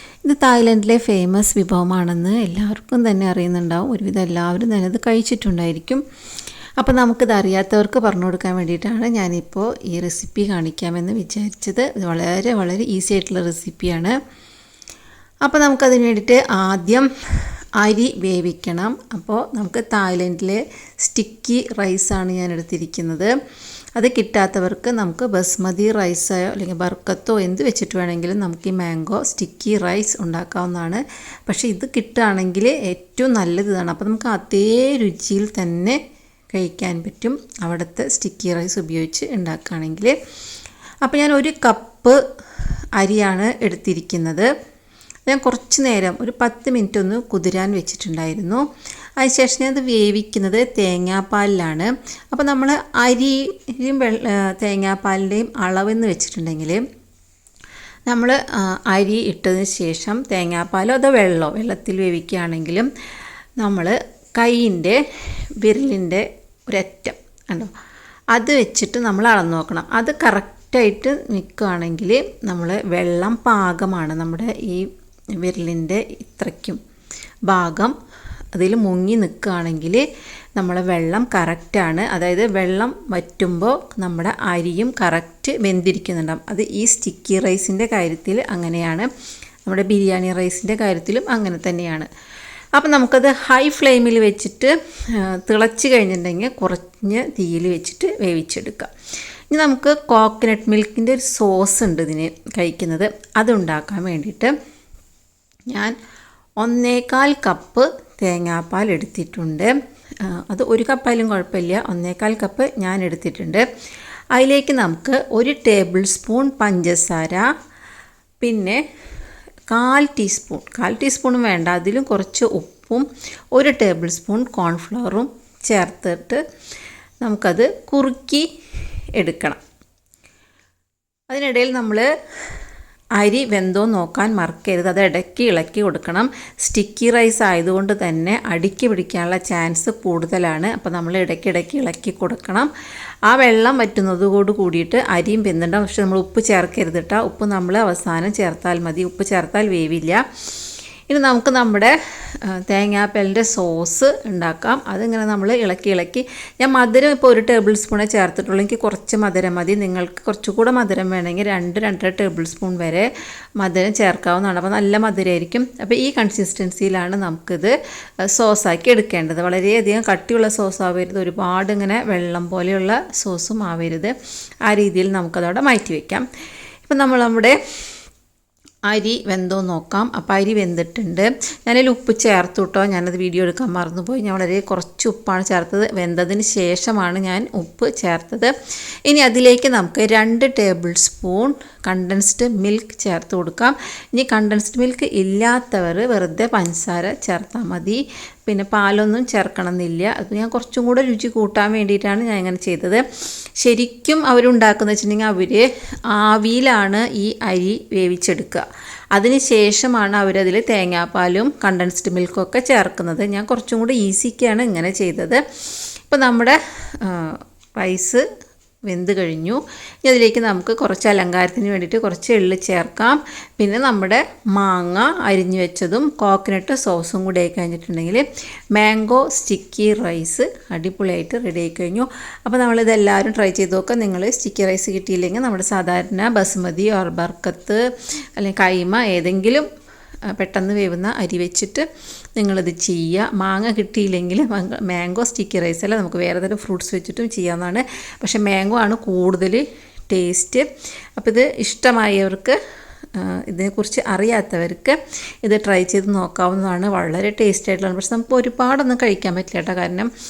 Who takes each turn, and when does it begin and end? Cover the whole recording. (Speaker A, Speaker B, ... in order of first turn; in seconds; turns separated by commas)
Speaker A: 0.2-6.0, Speaker A: 6.8-14.2, Speaker A: 15.4-23.3, Speaker A: 24.0-36.0, Speaker A: 36.5-40.1, Speaker A: 41.0-42.2, Speaker A: 43.0-44.5, Speaker A: 45.3-48.6, Speaker A: 49.2-56.8, Speaker A: 58.1-62.9, Speaker A: 63.6-65.0, Speaker A: 65.6-67.7, Speaker A: 68.3-76.8, Speaker A: 77.5-78.0, Speaker A: 78.5-80.0, Speaker A: 80.6-89.1, Speaker A: 89.7-92.1, Speaker A: 92.8-98.9, Speaker A: 99.5-104.5, Speaker A: 106.6-113.7, Speaker A: 114.3-117.5, Speaker A: 118.4-118.8, Speaker A: 119.7-126.4, Speaker A: 127.2-128.5, Speaker A: 129.2-129.6, Speaker A: 131.3-132.1, Speaker A: 133.2-142.7, Speaker A: 143.3-150.2, Speaker A: 151.1-163.1, Speaker A: 163.6-174.1, Speaker A: 174.7-176.3, Speaker A: 176.8-177.6, Speaker A: 178.9-188.5, Speaker A: 189.1-203.0, Speaker A: 203.6-215.4, Speaker A: 216.0-218.2, Speaker A: 218.9-237.8, Speaker A: 238.4-239.7, Speaker A: 240.3-250.7, Speaker A: 251.2-252.6, Speaker A: 253.1-260.1